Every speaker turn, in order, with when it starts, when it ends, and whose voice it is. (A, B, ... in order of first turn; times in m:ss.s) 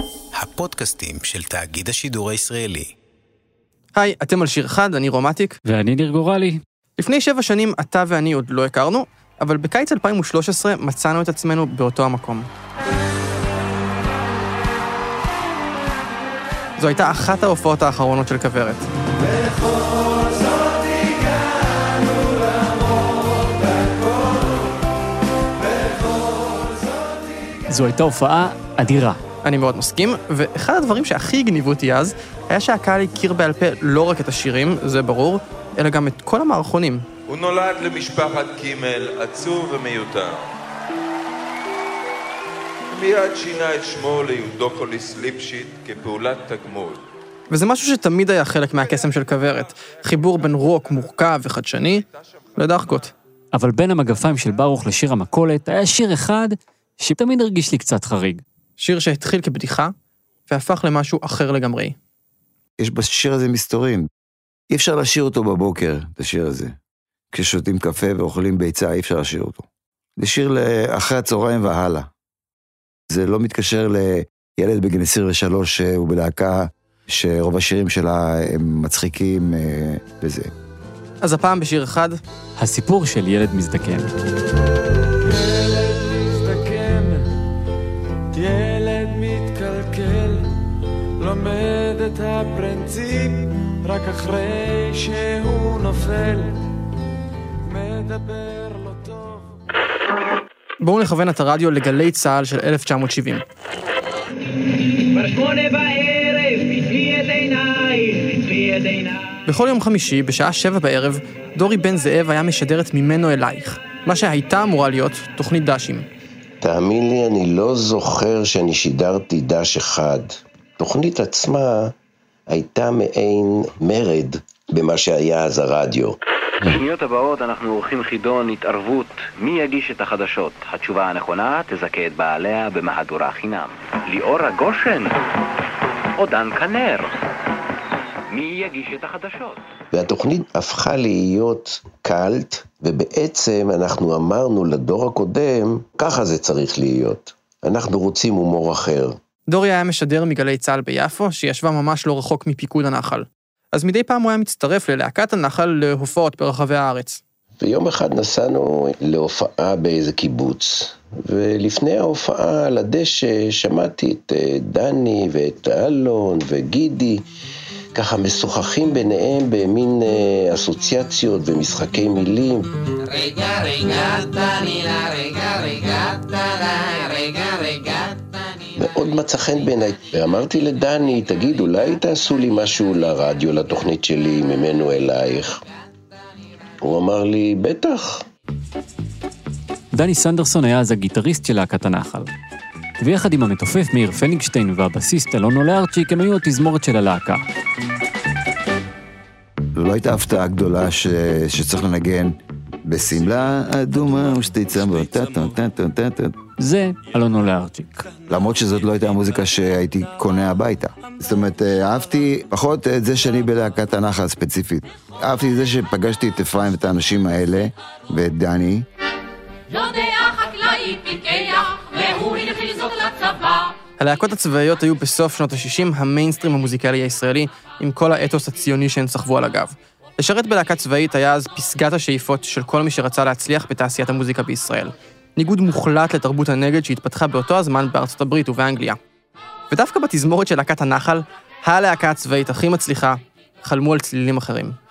0:00.3-0:02.9 A
0:03.9-0:05.6 B
0:05.6-0:06.6 C
0:07.0-0:12.5 B
0:16.8-0:18.8 B
0:27.7-0:29.2 C
0:29.4-0:37.0 B
0:37.3-0:40.5 D
0:42.9-0:47.0 D
0:47.5-0:52.0 B
0:52.6-0:53.1 B
0:53.5-0:58.4 C
0:58.8-0:59.9 B
1:00.5-1:02.0 B
1:02.8-1:04.1 E
1:04.7-1:06.8 E
1:07.3-1:09.6 E
1:10.2-1:12.1 E
1:13.1-1:20.5 E
1:21.2-1:22.2 B
1:22.6-1:24.1 C
1:25.2-1:27.3 F
1:28.3-1:30.5 F
1:31.2-1:36.6 F
1:37.6-1:39.6 F
1:40.8-1:43.4 B
1:45.1-1:49.3 G
1:49.5-1:56.0 B
1:56.6-2:01.9 H
2:02.5-2:06.2 H
2:06.6-2:15.1 I
2:16.2-2:17.2 I
2:18.3-2:19.6 I
2:19.9-2:29.2 H
2:29.5-2:37.2 B
2:37.6-2:47.2 H
2:47.9-2:52.7 H
2:53.1-2:58.2 J
2:58.8-3:05.6 H
3:06.8-3:08.2 H
3:09.9-3:12.3 C
3:13.0-3:17.4 C
3:19.7-3:26.4 E
3:26.6-3:28.1 C
3:28.2-3:38.9 E
3:44.0-3:59.0 B
3:59.7-4:04.8 B